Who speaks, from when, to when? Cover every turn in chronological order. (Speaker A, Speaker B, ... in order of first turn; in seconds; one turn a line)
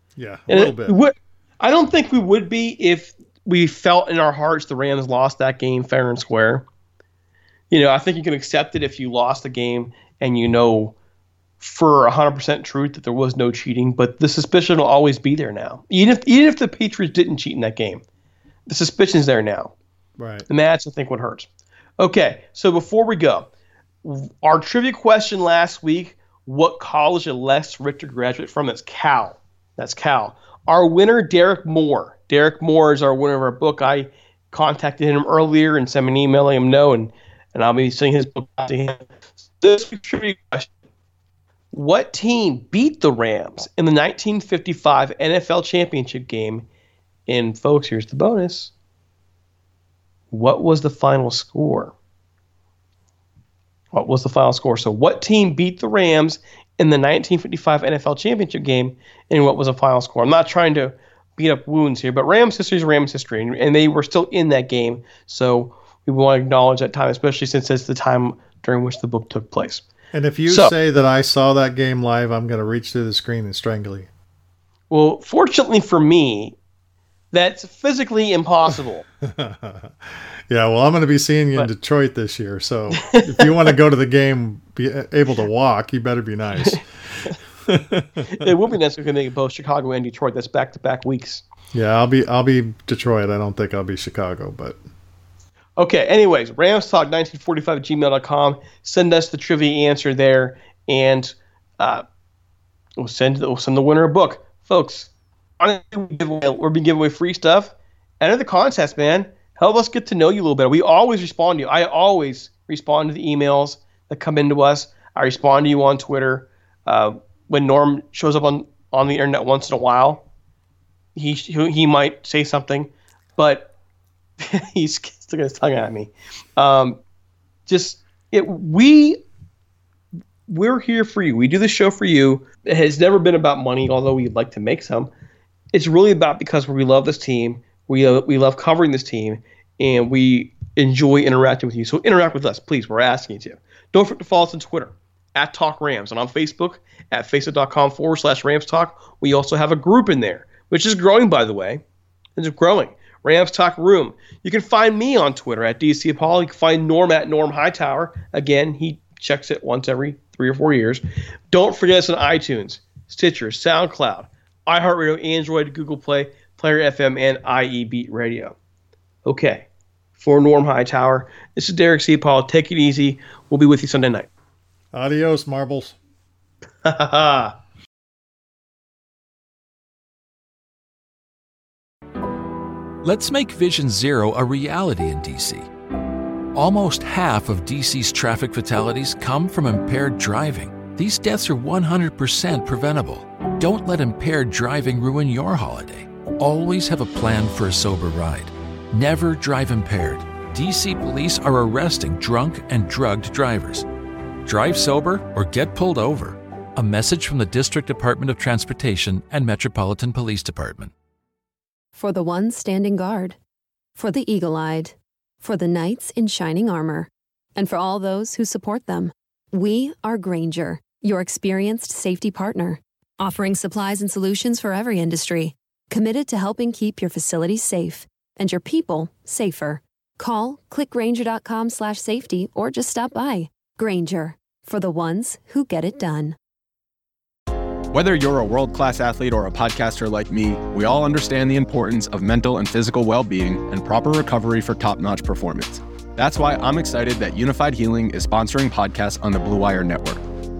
Speaker A: 0.1-1.0
Speaker B: 0.5-6.6
Speaker B: 7.7-10.9
Speaker B: 11.6-18.0
Speaker B: 18.7-19.7
Speaker A: 20.2-20.4
Speaker B: 20.5-23.5
Speaker B: 24.0-40.7
Speaker B: 41.7-46.7
Speaker B: 47.3-48.7
Speaker B: 50.3-51.9
Speaker B: 53.9-69.8
Speaker A: 70.1-74.1
Speaker B: 70.5-70.7
Speaker B: 74.9-76.6
Speaker B: 77.3-79.0
Speaker A: 79.2-86.9
Speaker B: 83.0-83.5
Speaker A: 87.7-88.5
Speaker B: 88.3-91.4
Speaker A: 91.7-94.8
Speaker B: 95.8-102.0
Speaker B: 103.0-120.3
Speaker B: 121.1-123.7
Speaker B: 124.4-127.0
Speaker B: 127.7-129.2
Speaker B: 130.5-135.1
Speaker B: 135.7-151.8
Speaker B: 152.3-168.5
Speaker B: 169.2-169.7
Speaker B: 170.2-174.3
Speaker A: 174.9-175.9
Speaker B: 176.8-177.6
Speaker C: 183.0-185.7
Speaker C: 186.5-203.9
Speaker C: 204.4-210.9
Speaker D: 211.9-213.4
Speaker D: 213.9-236.4
Speaker E: 237.9-250.2